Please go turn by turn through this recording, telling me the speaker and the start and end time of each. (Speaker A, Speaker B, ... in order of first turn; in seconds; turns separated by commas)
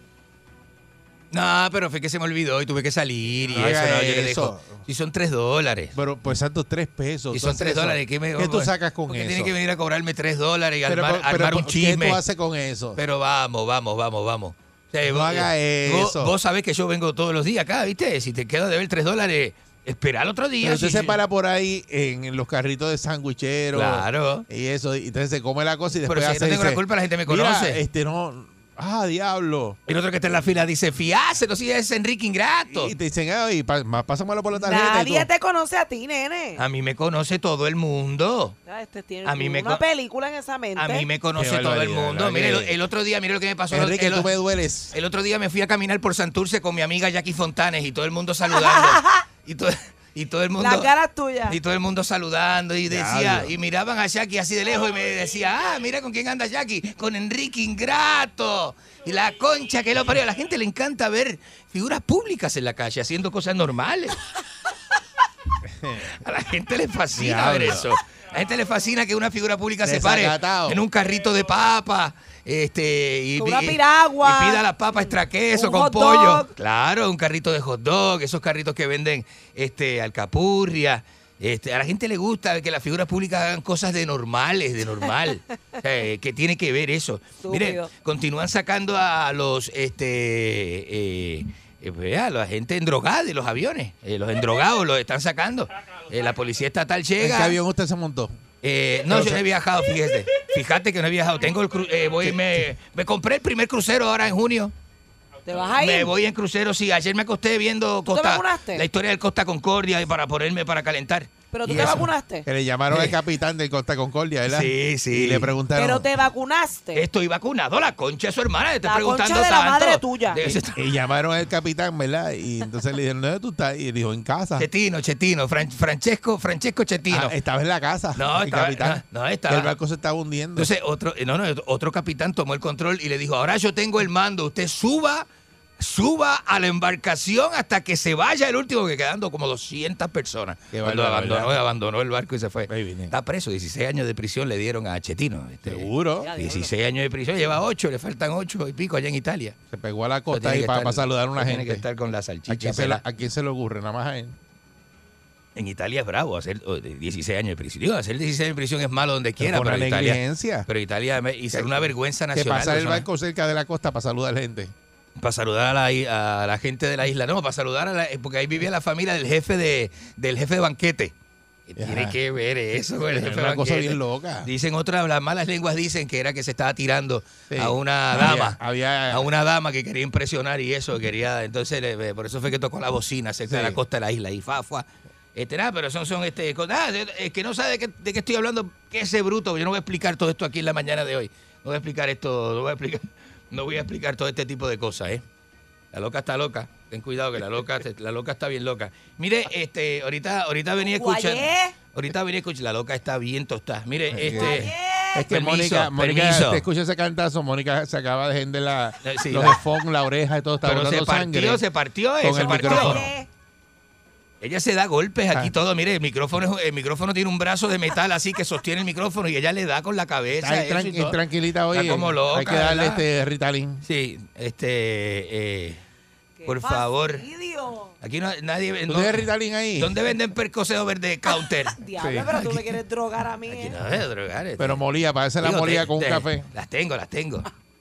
Speaker A: 1.3-5.9, Speaker B: 3.5-4.8, Speaker B: 6.0-9.5, Speaker A: 7.3-12.2, Speaker B: 10.9-13.0, Speaker A: 13.0-21.2, Speaker B: 15.1-16.3, Speaker B: 20.6-29.8, Speaker A: 23.7-24.4, Speaker A: 26.1-27.8, Speaker A: 29.9-32.9, Speaker B: 32.7-35.3, Speaker C: 34.5-36.6, Speaker A: 36.6-38.6, Speaker C: 38.7-41.1, Speaker A: 39.2-39.8, Speaker A: 40.8-44.3, Speaker B: 41.4-42.8, Speaker B: 43.7-44.9, Speaker A: 44.9-50.9, Speaker C: 48.5-49.2, Speaker C: 50.6-51.6, Speaker A: 51.5-64.2, Speaker B: 52.9-53.5, Speaker B: 65.7-66.1, Speaker A: 66.2-97.6, Speaker B: 67.2-67.9, Speaker B: 69.8-70.8, Speaker C: 73.4-74.6, Speaker C: 75.5-76.5, Speaker C: 87.4-87.9, Speaker B: 97.2-98.3, Speaker A: 98.6-104.7, Speaker B: 99.1-99.4, Speaker B: 102.2-102.6, Speaker C: 105.5-106.1, Speaker A: 105.7-112.1, Speaker C: 108.1-108.8, Speaker C: 111.5-112.5, Speaker B: 111.7-116.1, Speaker A: 112.9-113.2, Speaker A: 114.5-115.5, Speaker C: 115.8-117.0, Speaker A: 116.9-120.8, Speaker C: 118.8-120.4, Speaker B: 120.4-124.7, Speaker A: 124.6-127.3, Speaker B: 127.1-130.7, Speaker A: 128.2-129.7, Speaker A: 130.6-135.3, Speaker A: 135.8-149.6, Speaker B: 140.7-141.6, Speaker B: 142.7-143.1, Speaker B: 145.6-146.3, Speaker C: 146.2-146.7, Speaker B: 149.7-151.8, Speaker A: 150.3-153.0, Speaker B: 152.5-154.3, Speaker A: 155.6-163.1, Speaker B: 159.4-160.7, Speaker B: 161.5-164.7, Speaker A: 165.2-171.1, Speaker A: 171.7-178.6, Speaker B: 171.8-172.2, Speaker B: 173.1-174.5, Speaker B: 177.5-179.3, Speaker A: 179.1-195.2, Speaker B: 183.5-183.8, Speaker A: 195.9-204.7, Speaker C: 200.8-201.7, Speaker B: 204.1-211.6, Speaker C: 204.3-205.2, Speaker A: 205.3-206.6, Speaker A: 209.0-209.6, Speaker A: 210.6-213.1, Speaker B: 212.2-213.1, Speaker C: 212.4-213.3, Speaker A: 214.4-221.2, Speaker B: 220.4-223.8, Speaker A: 221.7-223.0, Speaker A: 223.8-225.8, Speaker C: 226.4-227.9, Speaker A: 226.4-227.3, Speaker A: 228.0-231.8, Speaker B: 228.9-229.9, Speaker C: 231.8-233.8, Speaker B: 232.0-232.5, Speaker A: 232.3-232.7, Speaker A: 233.5-234.8, Speaker B: 234.6-236.5, Speaker A: 235.4-237.5